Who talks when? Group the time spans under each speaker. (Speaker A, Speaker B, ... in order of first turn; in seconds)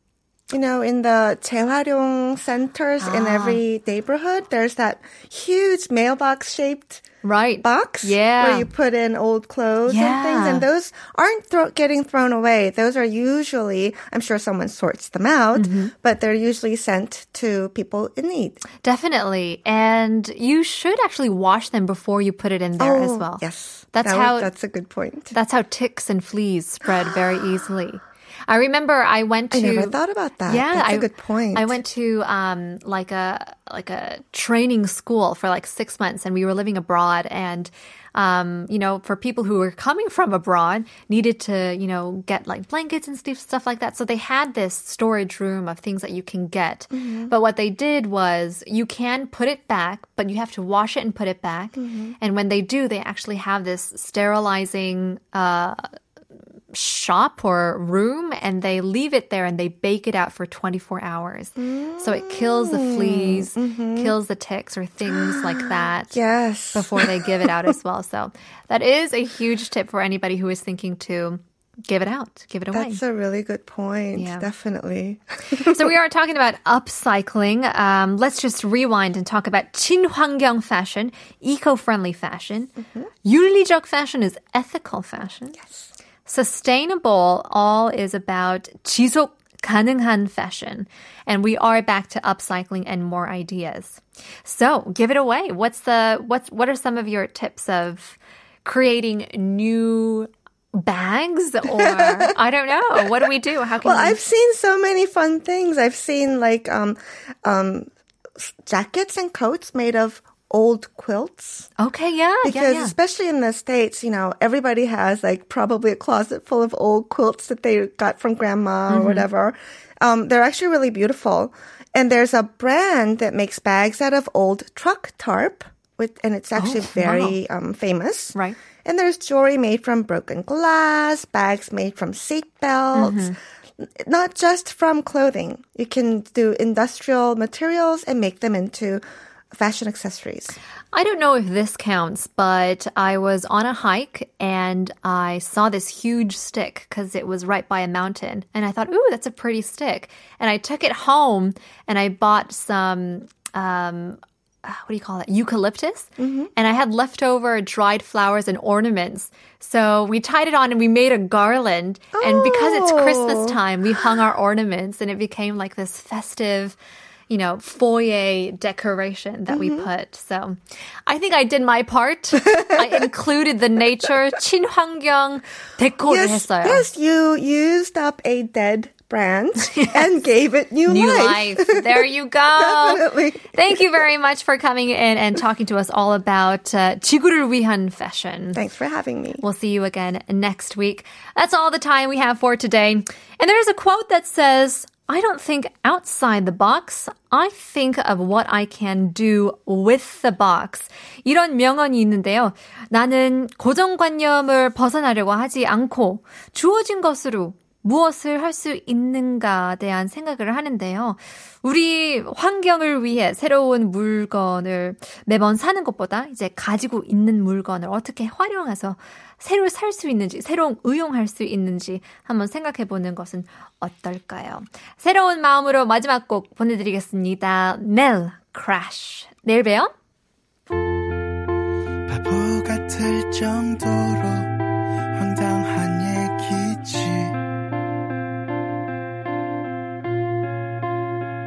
Speaker A: 0.5-7.0, 7.6-18.6, 22.8-25.3, 29.5-31.8, 46.9-47.3, 51.8-52.1, 61.6-64.1, 65.0-67.7, 72.7-75.9, 101.8-102.3, 103.8-111.7, 112.4-133.3, 134.0-139.0, 139.5-140.6, 156.2-156.5, 162.1-163.6, 169.5-169.9, 172.5-173.0, 176.1-183.8, 188.5-189.4
Speaker B: 3.0-3.6, 7.2-8.7, 9.8-10.7, 15.5-15.9, 18.8-24.5, 25.3-29.9, 30.4-55.9, 56.7-66.1, 66.7-73.0, 74.1-74.5, 75.5-82.7, 83.2-85.6, 86.2-104.2, 111.8-112.9, 118.9-119.3, 126.5-127.4, 132.9-133.3, 140.9-166.8, 167.3-176.9, 180.8-188.6, 189.4-229.9
Speaker C: 232.1-234.6, 235.1-237.4